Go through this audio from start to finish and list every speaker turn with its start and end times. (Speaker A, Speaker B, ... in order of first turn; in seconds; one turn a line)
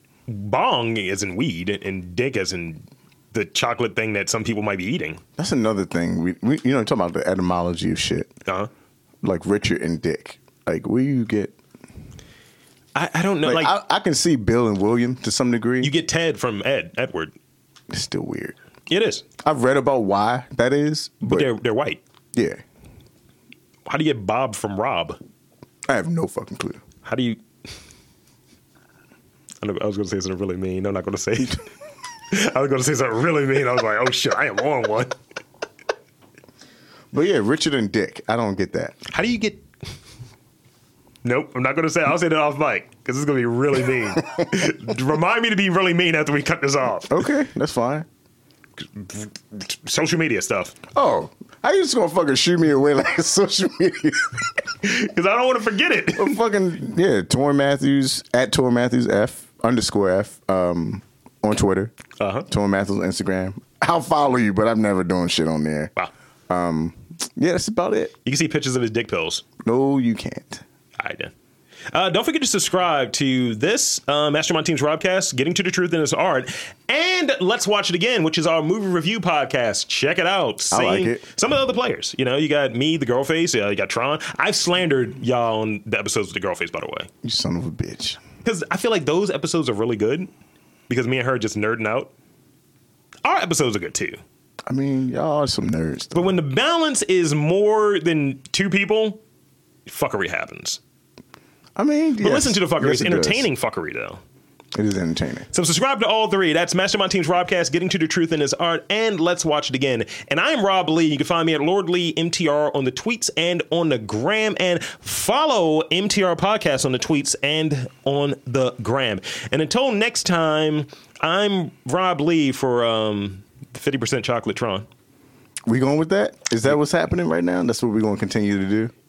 Speaker A: 0.3-5.2
Speaker B: 5.4-8.3
Speaker B: 9.2-11.6
Speaker A: 12.9-13.8
Speaker B: 13.4-15.9
Speaker A: 15.8-17.3
Speaker B: 17.9-18.6
Speaker A: 18.9-19.2
Speaker B: 19.4-21.5
Speaker A: 21.2-22.0
Speaker B: 22.3-22.6
Speaker A: 23.9-25.2
Speaker B: 25.9-26.8
Speaker A: 27.0-27.4
Speaker A: 29.6-31.7
Speaker A: 32.3-35.1
Speaker B: 37.1-39.0
Speaker A: 39.1-39.6
Speaker A: 41.2-47.2
Speaker B: 47.1-48.1
Speaker A: 48.8-50.8
Speaker B: 50.9-54.5
Speaker A: 54.8-56.4
Speaker B: 56.1-61.9
Speaker A: 62.2-62.5
Speaker B: 62.5-65.9
Speaker B: 66.5-68.1
Speaker A: 68.2-69.4
Speaker B: 69.6-70.6
Speaker A: 71.0-71.3
Speaker A: 71.9-87.1
Speaker B: 80.7-81.2
Speaker B: 87.2-88.2
Speaker A: 88.4-90.3
Speaker A: 90.9-92.1
Speaker A: 93.2-94.2
Speaker B: 94.7-96.3
Speaker A: 96.1-99.2
Speaker A: 99.8-100.8
Speaker B: 101.8-103.5
Speaker A: 102.2-104.2
Speaker B: 104.7-105.5
Speaker A: 105.5-124.9
Speaker B: 125.7-128.9